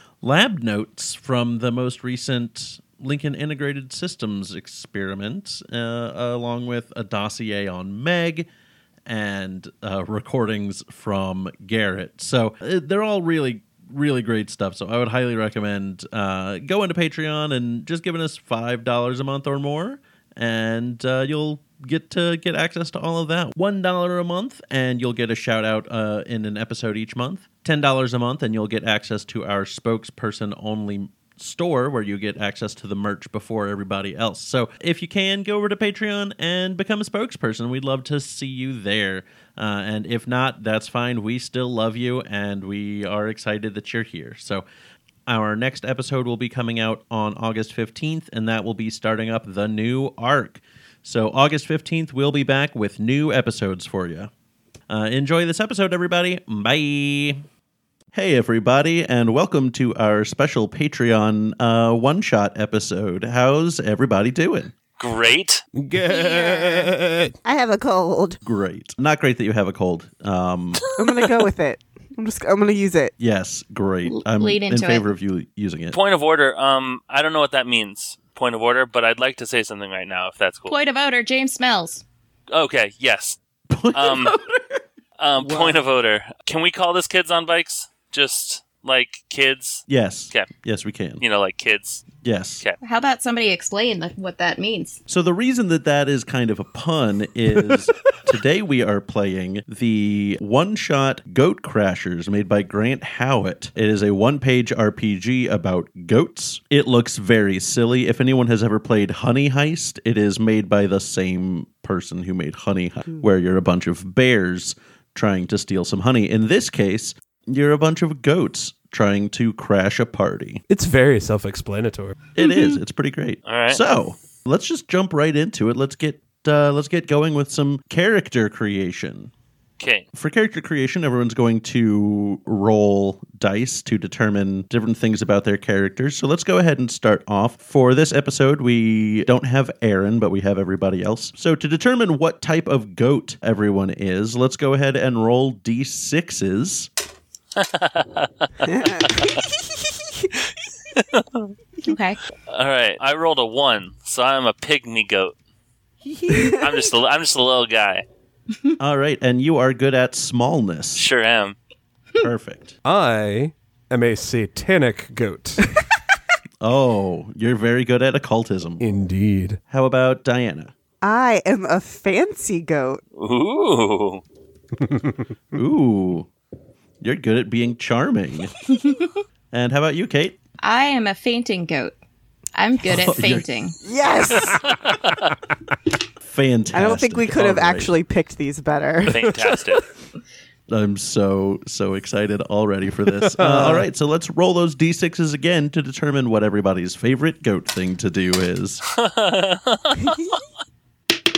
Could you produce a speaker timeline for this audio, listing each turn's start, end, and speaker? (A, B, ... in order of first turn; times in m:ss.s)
0:00.2-0:08.5 A
0:09.1-0:44.6 A
0:45.3-0:54.3 A
0:54.9-0:57.4 A
0:58.1-1:04.7 A
1:05.0-1:05.6 B
1:05.8-1:07.3 C
1:06.2-1:06.9 D
1:07.4-1:08.4 E
1:08.4-1:10.8 A
1:11.0-1:13.1 E
1:13.2-1:16.0 A
1:14.1-1:15.1 D
1:15.9-1:20.8 B
1:20.7-1:22.0 D
1:22.5-1:23.4 B
1:23.7-1:24.8 A
1:23.9-1:24.4 B
1:25.2-1:30.5 B
1:25.4-1:25.8 A
1:29.9-1:31.2 A
1:31.2-1:32.1 B
1:32.2-1:32.6 A
1:32.8-1:35.0 D
1:35.1-2:00.6 A
2:00.7-2:02.2 C
2:02.4-2:09.3 A
2:02.4-2:02.7 D
2:03.5-2:03.8 B
2:09.8-2:10.1 B
2:10.1-2:26.9 A
2:27.6-2:29.4 B
2:28.6-2:29.2 E
2:30.9-2:31.5 B
2:31.8-2:32.2 D
2:32.5-2:35.4 B
2:36.3-2:36.8 E
2:36.6-2:38.0 B
2:38.8-2:41.0 A
2:41.0-2:41.6 B
2:42.2-2:42.8 A
2:42.8-2:45.8 C
2:46.6-2:48.8 A
2:48.8-2:49.6 C
2:49.7-2:50.7 A
2:51.0-2:53.0 E
2:53.2-2:54.2 B
2:55.6-2:56.3 A
2:57.0-2:58.6 A
2:58.7-2:59.1 D
2:59.5-3:00.4 A
3:00.6-3:02.0 D
3:02.6-3:03.8 D
3:02.8-3:03.5 A
3:03.8-3:04.6 E
3:04.7-3:05.3 B
3:06.2-3:08.0 A
3:06.7-3:09.6 E
3:09.1-3:09.8 B
3:10.7-3:18.8 A
3:13.1-3:13.9 C
3:18.9-3:20.4 B